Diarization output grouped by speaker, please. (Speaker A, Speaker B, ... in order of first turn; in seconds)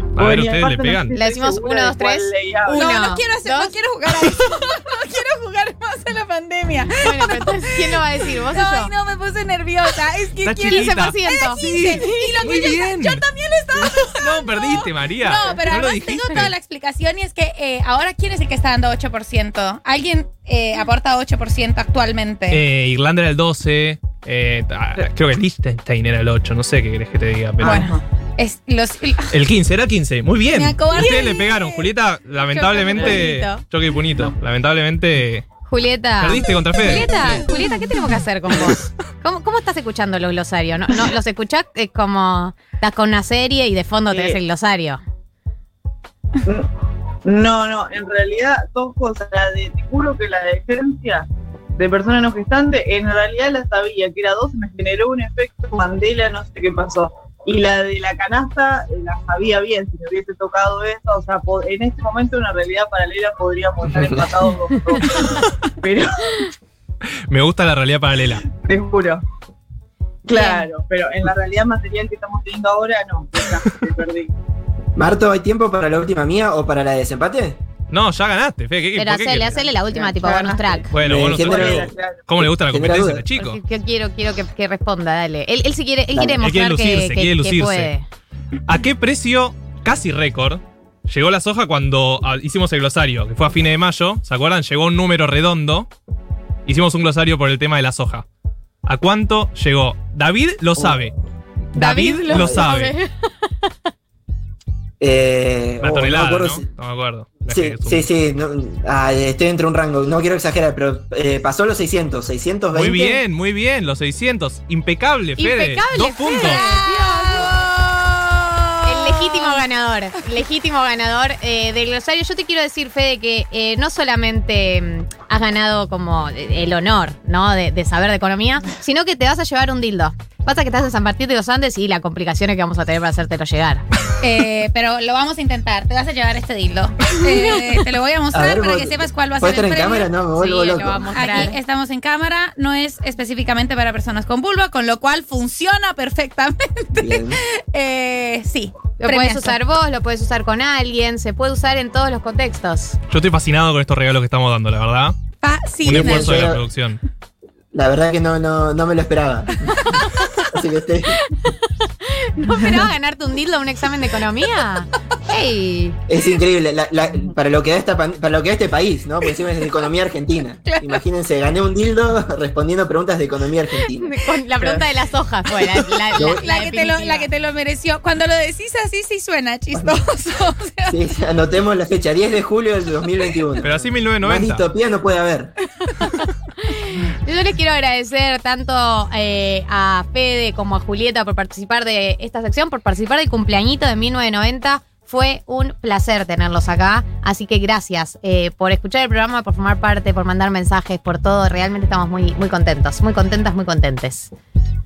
Speaker A: 0.1-1.1, 10.4-13.2, 14.0-16.5, 22.5-27.9, 29.3-35.5, 36.2-37.3, 67.3-68.5, 77.9-79.7, 80.9-83.6, 86.4-87.9, 88.7-95.9, 96.7-98.2, 98.8-101.1, 101.7-102.9, 105.8-108.1, 112.7-116.6, 153.1-155.2, 155.8-157.0, 183.6-184.6
Speaker B: 0.1-3.1, 27.6-28.0, 32.9-33.2, 44.1-44.4, 46.4-46.7, 47.2-66.5, 68.5-69.2, 70.2-74.3, 79.9-82.2, 162.4-162.9
Speaker C: 1.1-3.7, 7.0-8.9, 10.7-12.3, 32.9-33.6, 35.6-45.0, 70.3-70.7, 79.0-80.9, 83.3-88.0, 101.7-103.1, 115.4-117.7, 118.8-133.8, 140.3-141.6, 149.0-153.0, 162.2-166.0, 174.0-177.3, 186.1-204.3
Speaker D: 2.7-22.6, 27.7-29.3, 30.5-31.9, 32.5-32.8, 116.4-119.1, 134.2-140.1, 141.1-149.6, 155.4-156.3, 170.7-171.0, 175.5-181.0, 185.8-186.2
Speaker E: 75.0-77.6, 81.0-83.2, 86.1-86.4, 102.3-102.7, 105.0-106.7, 107.5-113.2, 138.3-141.2, 146.9-147.4, 155.8-156.6, 157.7-161.2, 166.1-174.1, 176.2-176.4, 180.9-185.5